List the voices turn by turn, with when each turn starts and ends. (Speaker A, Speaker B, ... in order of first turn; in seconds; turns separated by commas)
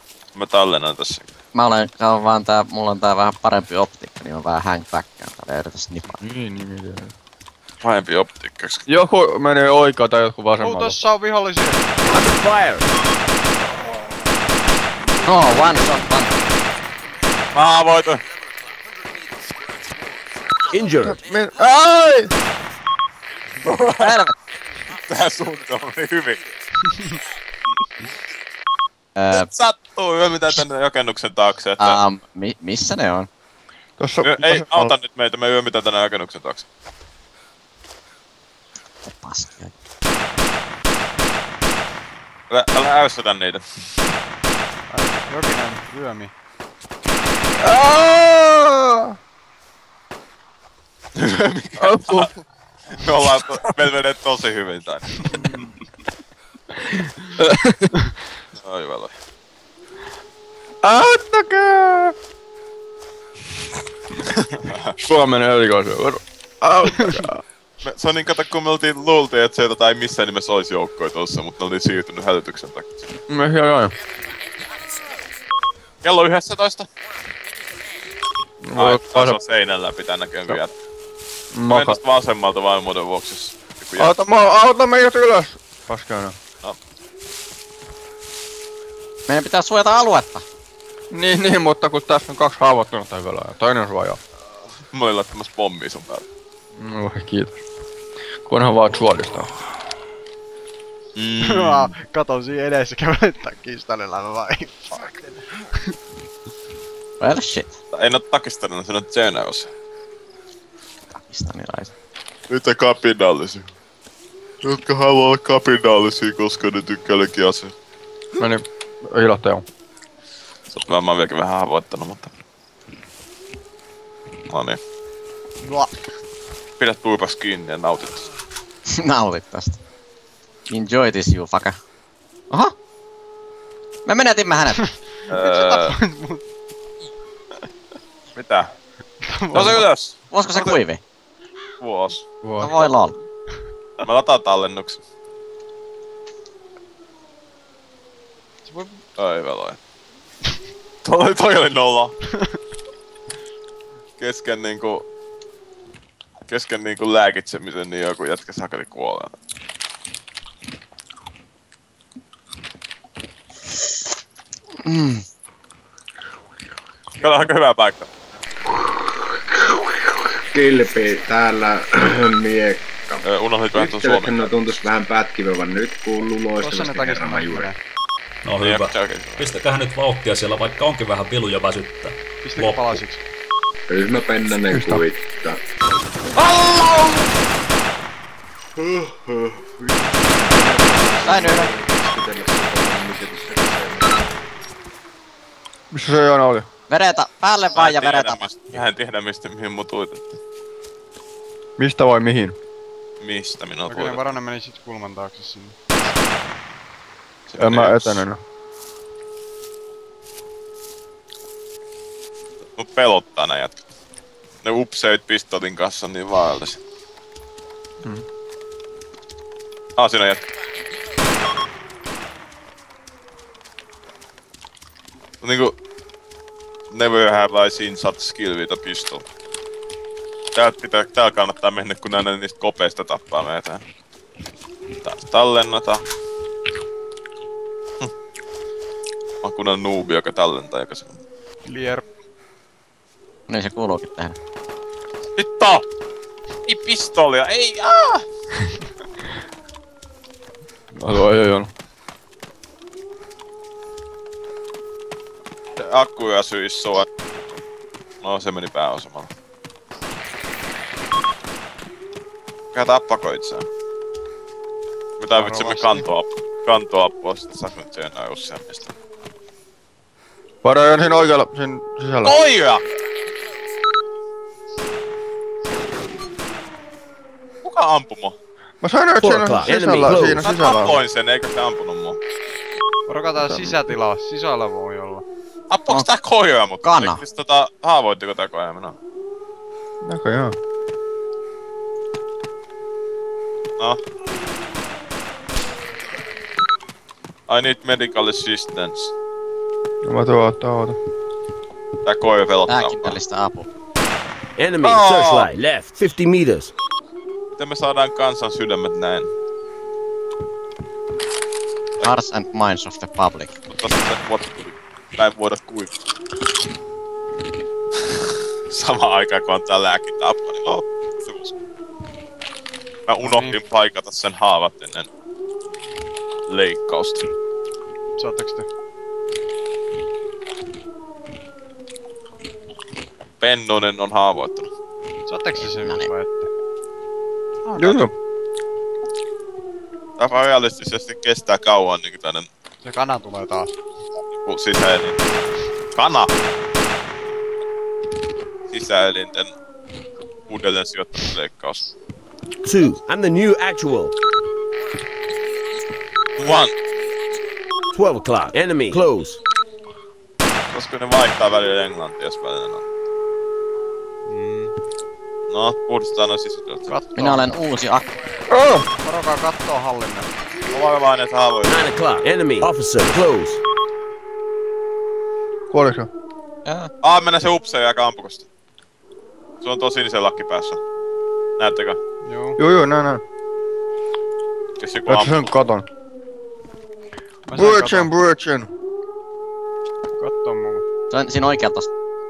Speaker A: 0.3-1.3, Speaker B: 1.5-6.2, Speaker C: 6.1-7.1, Speaker A: 7.8-8.8, Speaker C: 8.9-11.0, Speaker D: 10.6-11.8, Speaker E: 12.1-12.9, Speaker B: 15.3-16.4, Speaker A: 17.5-18.2, Speaker E: 20.7-21.2, Speaker C: 21.1-22.3, Speaker A: 23.6-24.2, Speaker B: 24.0-24.3, Speaker A: 25.0-26.4, Speaker B: 29.2-29.5, Speaker A: 29.3-32.0, Speaker B: 31.8-33.3, Speaker C: 34.0-34.9, Speaker A: 34.2-36.7, Speaker B: 39.1-39.7, Speaker A: 42.5-43.6, Speaker D: 44.9-46.3, Speaker C: 47.6-49.2, Speaker A: 51.1-52.3, Speaker C: 51.8-52.4, Speaker A: 52.9-55.2, Speaker C: 56.7-57.9, Speaker A: 58.5-59.1, Speaker C: 60.8-62.1, Speaker A: 64.5-65.0, Speaker C: 65.0-67.4, Speaker D: 66.8-67.3, Speaker A: 67.8-73.0, Speaker C: 73.3-74.0, Speaker A: 76.0-76.9, Speaker C: 78.6-79.4, Speaker A: 78.8-80.7, Speaker C: 81.5-82.0, Speaker A: 81.7-84.2, Speaker C: 84.0-86.4, Speaker B: 89.3-90.4, Speaker C: 91.1-94.2, Speaker A: 94.9-96.3, Speaker C: 96.8-97.6, Speaker C: 98.5-99.5, Speaker A: 101.2-101.9, Speaker D: 101.4-105.1, Speaker B: 107.2-107.7, Speaker A: 107.9-109.7, Speaker B: 111.1-111.9, Speaker A: 112.5-113.7, Speaker A: 114.6-117.7, Speaker C: 118.4-119.7, Speaker A: 120.7-122.3, Speaker A: 124.5-124.8, Speaker D: 125.6-126.0, Speaker A: 126.8-128.3, Speaker B: 128.9-129.8, Speaker B: 130.7-131.8, Speaker B: 134.1-134.8, Speaker D: 134.7-136.4, Speaker A: 135.3-136.0, Speaker A: 138.3-138.7, Speaker D: 139.2-139.9, Speaker A: 139.5-140.8, Speaker B: 140.3-141.0, Speaker A: 141.8-142.2, Speaker C: 142.4-142.9, Speaker B: 142.6-143.2, Speaker A: 144.0-145.0, Speaker D: 148.7-149.0, Speaker A: 149.2-149.8, Speaker A: 151.0-152.2, Speaker A: 154.2-155.1, Speaker A: 156.5-159.3, Speaker B: 164.8-165.2, Speaker A: 167.2-168.1, Speaker F: 168.7-177.7, Speaker A: 173.2-174.5, Speaker D: 176.6-177.8, Speaker G: 178.4-183.0, Speaker A: 178.6-179.5, Speaker D: 182.4-183.2, Speaker F: 183.9-185.6, Speaker C: 184.7-185.0, Speaker A: 186.4-187.3, Speaker F: 188.8-194.3, Speaker B: 191.2-191.7, Speaker C: 195.9-196.7, Speaker B: 196.9-198.8, Speaker A: 197.7-200.4, Speaker C: 201.8-202.6, Speaker A: 203.2-204.3, Speaker D: 203.9-205.8, Speaker A: 207.5-208.2, Speaker C: 207.6-208.4, Speaker A: 212.8-213.8, Speaker A: 214.6-216.8, Speaker A: 220.0-220.4, Speaker A: 225.4-225.8, Speaker A: 226.9-229.2, Speaker A: 230.6-233.8, Speaker A: 235.0-236.1, Speaker A: 239.4-241.2, Speaker D: 241.7-242.1, Speaker B: 243.5-244.4, Speaker A: 245.4-245.8, Speaker A: 246.7-248.2, Speaker C: 250.9-251.7, Speaker A: 255.8-257.1, Speaker A: 258.2-259.3, Speaker A: 262.7-263.7, Speaker A: 265.2-268.9, Speaker D: 265.3-266.1, Speaker C: 270.6-272.4, Speaker A: 272.2-272.8, Speaker A: 277.6-278.4, Speaker C: 278.8-281.0, Speaker E: 279.2-280.4, Speaker A: 280.4-282.2, Speaker D: 283.1-285.2, Speaker C: 283.4-283.8, Speaker A: 285.7-289.0, Speaker B: 286.8-287.2, Speaker C: 290.0-290.6, Speaker A: 297.5-299.1, Speaker C: 300.0-301.0, Speaker A: 302.1-303.2, Speaker B: 302.7-303.7, Speaker E: 304.6-306.7, Speaker A: 304.8-305.5, Speaker A: 307.6-309.3, Speaker B: 312.0-313.6, Speaker A: 313.7-315.9, Speaker A: 318.1-321.5, Speaker A: 323.1-325.1, Speaker D: 323.2-323.6, Speaker A: 326.5-327.3, Speaker D: 328.2-328.7, Speaker A: 333.4-334.7, Speaker D: 335.3-336.5, Speaker B: 335.6-336.1, Speaker A: 337.7-338.1, Speaker C: 337.8-338.1, Speaker A: 340.2-342.5, Speaker D: 342.8-343.7, Speaker A: 344.2-345.2, Speaker A: 345.9-346.3, Speaker A: 348.7-349.5, Speaker A: 350.5-351.9, Speaker E: 352.6-354.1, Speaker A: 356.4-356.8, Speaker E: 357.9-359.4, Speaker A: 360.7-362.8, Speaker D: 364.3-364.8, Speaker A: 365.5-366.9, Speaker D: 366.9-367.6, Speaker B: 367.2-368.1, Speaker C: 368.5-368.9, Speaker D: 369.0-370.3, Speaker A: 370.7-371.9, Speaker E: 371.7-373.6, Speaker C: 375.7-376.1, Speaker B: 376.7-376.9, Speaker A: 377.0-378.5, Speaker A: 379.6-380.8, Speaker A: 381.6-382.0, Speaker D: 382.2-382.6, Speaker C: 382.6-383.2, Speaker A: 384.8-385.4, Speaker C: 385.1-385.9, Speaker D: 387.5-388.1, Speaker C: 387.5-388.7, Speaker D: 390.2-390.8, Speaker B: 391.1-391.9